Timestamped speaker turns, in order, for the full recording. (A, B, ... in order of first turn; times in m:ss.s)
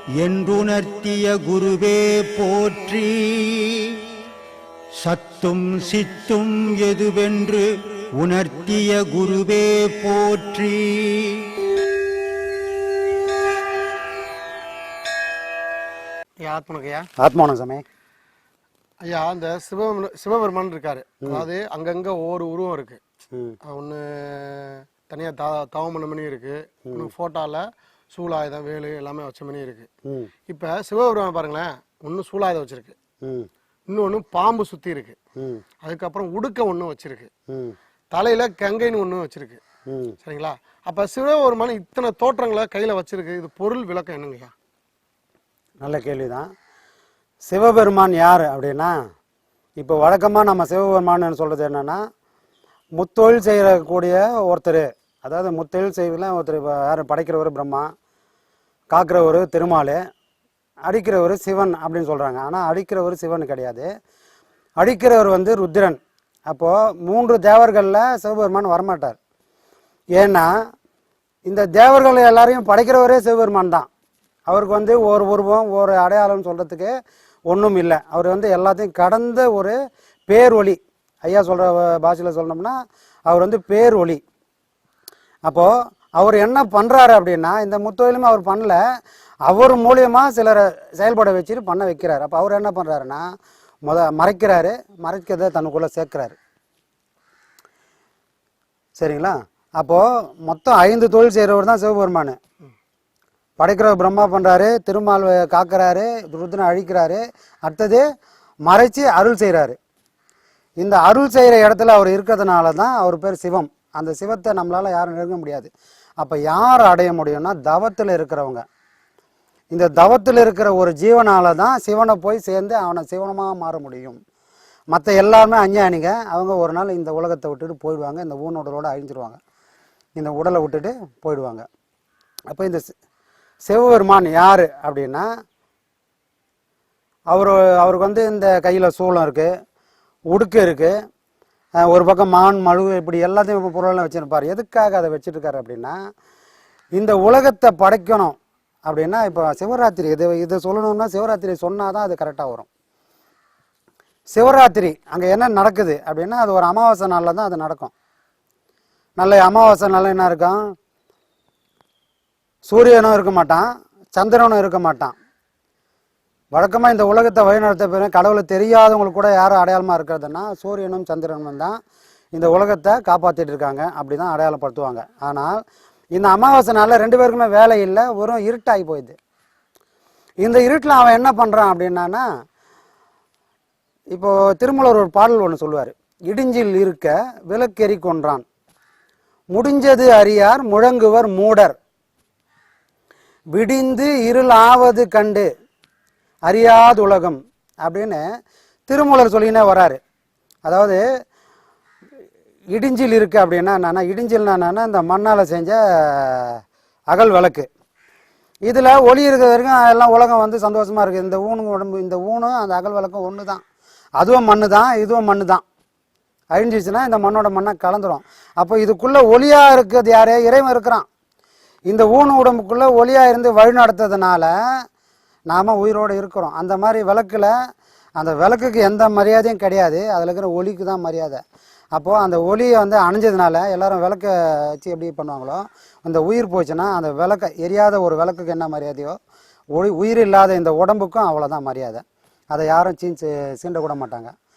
0:00.2-0:04.0 A
0:05.0-0:11.6 A
0:16.4-0:17.1 B
0:17.2-0:17.8 C
0:19.0-0:23.0 B
0:23.3-0:23.6 C
0:23.6-0:29.9 B
0:26.8-0:27.1 C
0:30.0-0:30.3 C
0:30.5-0:32.9 B
0:33.2-0:33.5 C
0:33.9-0:35.2 B
0:35.4-0:35.6 C
0:35.8-0:37.3 B
0:37.5-0:37.8 C
0:38.1-0:39.6 B
0:39.9-0:40.2 C
0:40.2-0:44.5 B
0:45.8-0:46.5 C
0:47.5-0:49.0 C
0:49.8-0:52.0 C
0:53.0-0:57.9 C
0:58.9-1:00.0 C
1:00.9-1:03.9 C
1:04.8-1:09.2 C
1:10.2-1:10.5 C
1:11.4-1:13.9 C
1:14.5-1:16.9 C
1:17.5-1:22.7 C
1:23.3-1:24.2 C
1:25.4-1:28.8 C
1:29.4-1:33.2 C
1:33.8-1:36.4 C
1:39.0-1:42.4 C
1:43.6-1:48.0 C
1:48.6-1:49.8 C
1:50.8-1:55.7 C
1:56.2-1:58.6 C
1:59.7-2:04.2 C
2:04.9-2:09.4 C
2:10.2-2:11.6 C
2:12.5-2:12.8 C
2:13.7-2:15.3 C
2:17.3-2:19.5 C
2:20.3-2:20.9 C
2:21.8-2:26.0 C
2:27.0-2:28.4 C
2:28.9-2:32.7 C
2:34.3-2:37.9 C
2:39.2-2:40.6 C
2:42.6-2:45.1 C
2:46.5-2:51.8 C
2:52.3-2:55.6 C
2:56.2-2:59.2 C
3:00.4-3:02.2 C
3:04.1-3:08.4 C
3:09.5-3:11.8 C
3:13.5-3:15.5 C
3:16.5-3:18.2 C
3:18.9-3:20.0 C
3:20.6-3:21.0 C
3:22.7-3:26.6 C
3:27.1-3:27.7 C
3:28.6-3:33.6 C
3:34.2-3:35.6 C
3:36.5-3:41.0 C
3:41.9-3:44.5 C
3:45.5-3:47.5 C
3:48.2-3:51.4 C
3:51.9-3:59.2 C
3:59.7-4:04.3 C